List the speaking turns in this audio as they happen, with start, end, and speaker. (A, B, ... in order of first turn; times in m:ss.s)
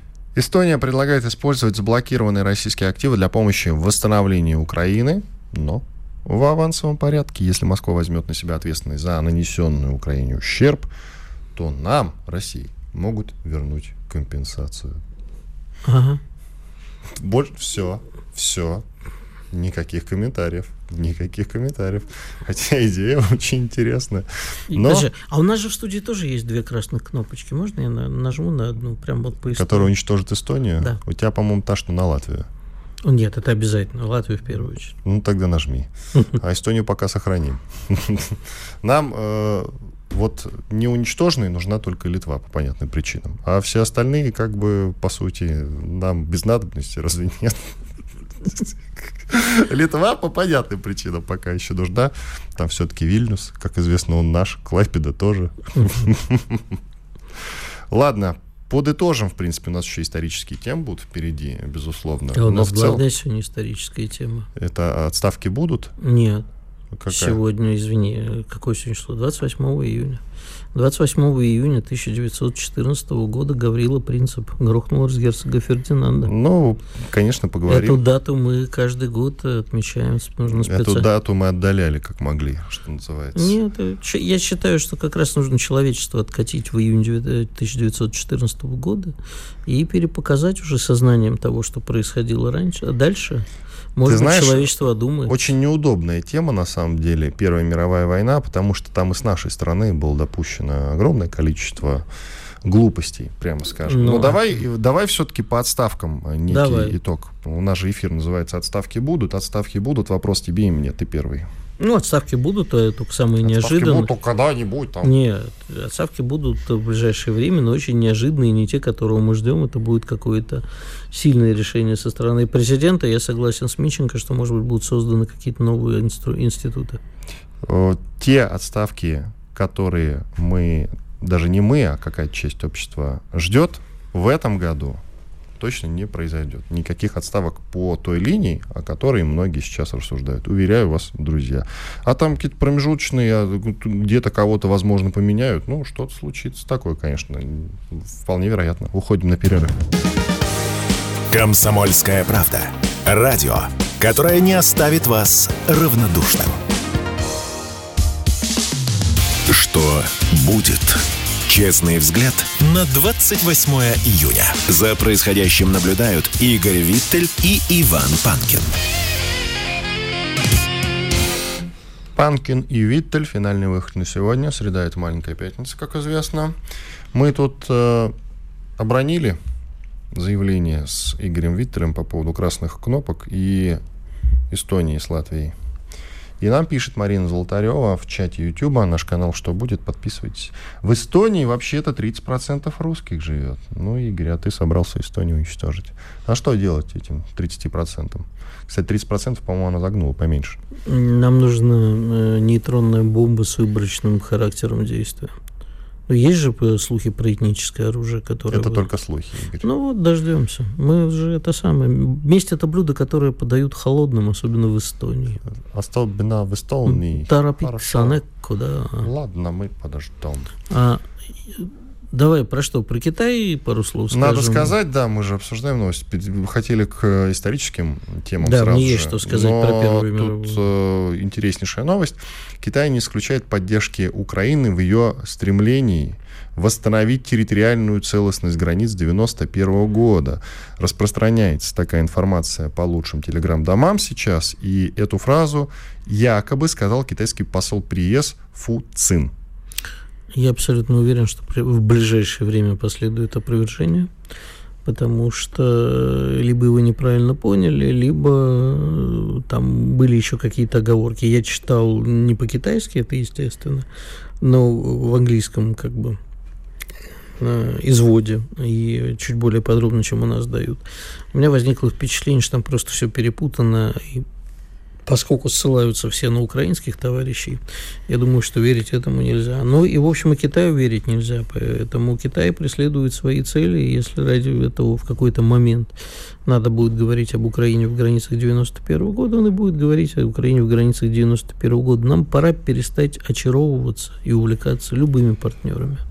0:00.3-0:10.9 A
0:11.5-0:15.0 A
0:15.8-0:16.2 B
0:17.2-0:18.8 A
0:19.5-0:25.1 A
0:24.7-0:29.9 B
0:29.5-0:32.5 A
0:33.0-0:34.9 B
0:35.0-0:47.7 A
0:48.4-0:56.8 A
0:55.7-0:56.0 B
0:57.9-1:03.0 A
1:02.3-1:04.5 B
1:04.6-1:05.9 A
1:06.0-1:06.4 B
1:06.9-1:07.4 A
1:07.1-1:10.2 B
1:10.7-1:16.3 B
1:16.2-1:18.0 A
1:17.7-1:21.0 B
1:20.5-1:23.6 A
1:23.3-1:29.1 B
1:29.6-1:35.4 B
1:34.0-1:34.7 A
1:35.3-1:42.1 A
1:42.6-1:51.5 A
1:43.9-1:44.6 B
1:46.5-1:47.0 B
1:51.8-1:54.1 B
1:53.4-1:55.1 A
1:55.0-2:07.0 B
2:07.6-2:15.0 A
2:15.6-2:29.7 A
2:31.3-2:36.6 C
2:39.5-2:48.7 C
2:52.1-2:56.6 A
2:57.1-2:58.1 A
2:58.8-2:59.4 A
3:00.1-3:03.8 A
3:04.5-3:05.5 A
3:06.4-3:20.6 A
3:20.8-3:25.3 B
3:26.1-3:28.9 B
3:28.5-3:29.7 A
3:29.6-3:35.4 B
3:35.7-3:38.2 A
3:36.9-3:39.1 B
3:39.0-3:40.5 A
3:40.7-3:44.7 B
3:44.1-4:09.3 A
3:48.4-3:50.6 B
4:10.3-4:14.1 B
4:14.8-4:23.8 B
4:24.4-4:26.2 B
4:27.4-4:34.2 B
4:35.0-4:45.9 B
4:46.4-4:56.0 B